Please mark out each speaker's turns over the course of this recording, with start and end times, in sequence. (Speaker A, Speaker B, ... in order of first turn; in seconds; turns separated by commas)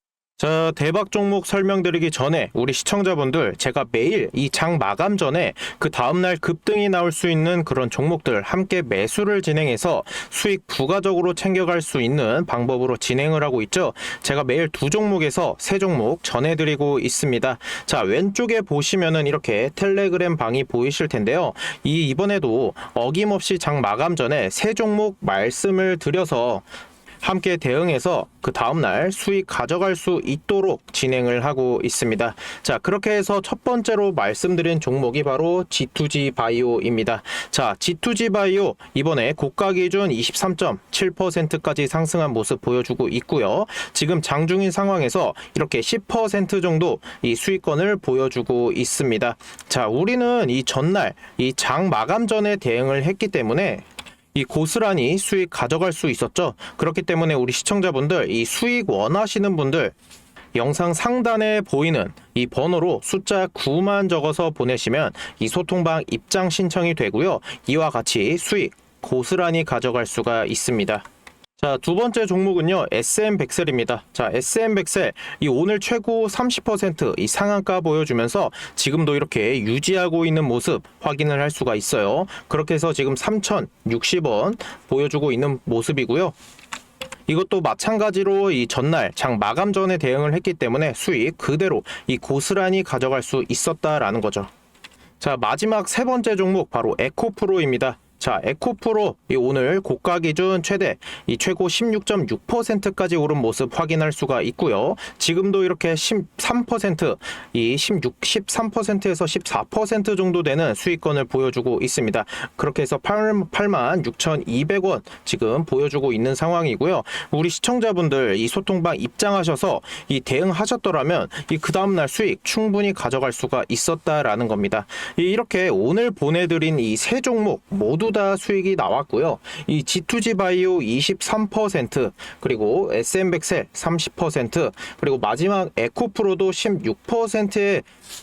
Speaker A: 0.4-26.6, Speaker A: 27.2-59.9, Speaker A: 60.5-71.0, Speaker A: 71.6-86.3, Speaker A: 87.3-94.5, Speaker A: 95.2-137.9